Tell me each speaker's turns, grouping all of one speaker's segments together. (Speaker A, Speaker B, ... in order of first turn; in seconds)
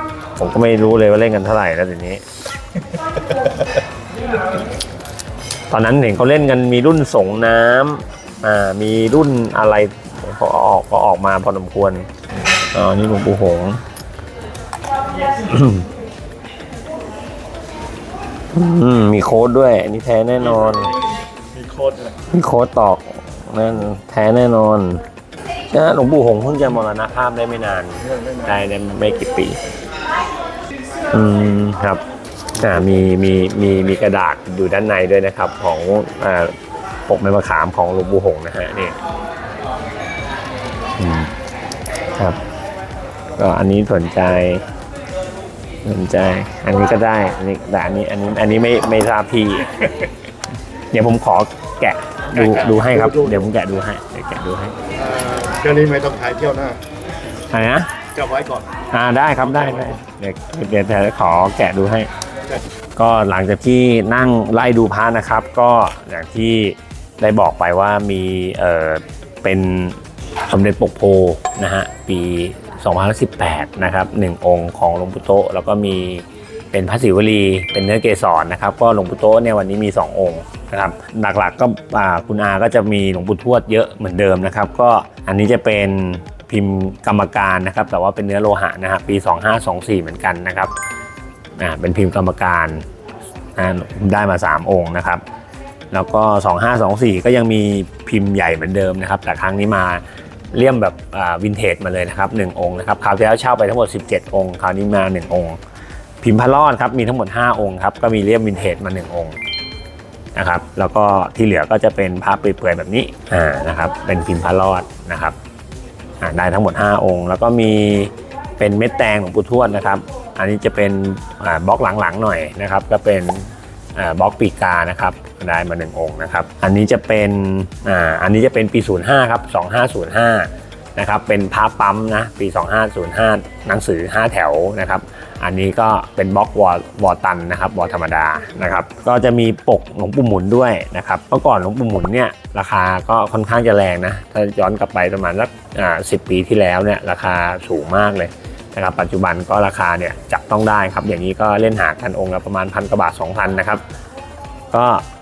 Speaker A: 0.4-2.2, 5.7-12.1, 12.7-13.8, 15.5-15.9, 18.5-20.9, 22.3-25.0, 25.7-29.6, 31.1-32.0, 32.5-36.5, 37.1-38.9, 41.0-41.3, 43.4-44.6, 45.8-50.0, 50.9-54.8, 57.5-57.9, 58.9-62.1, 63.0-90.7, 91.6-92.8, 93.5-95.2, 95.9-105.6, 106.2-109.4, 110.3-115.4, 116.2-153.8, 154.7-155.0
Speaker B: 21.5-22.2, 28.1-28.4, 52.3-53.5, 54.9-56.8, 58.1-58.7, 59.7-60.0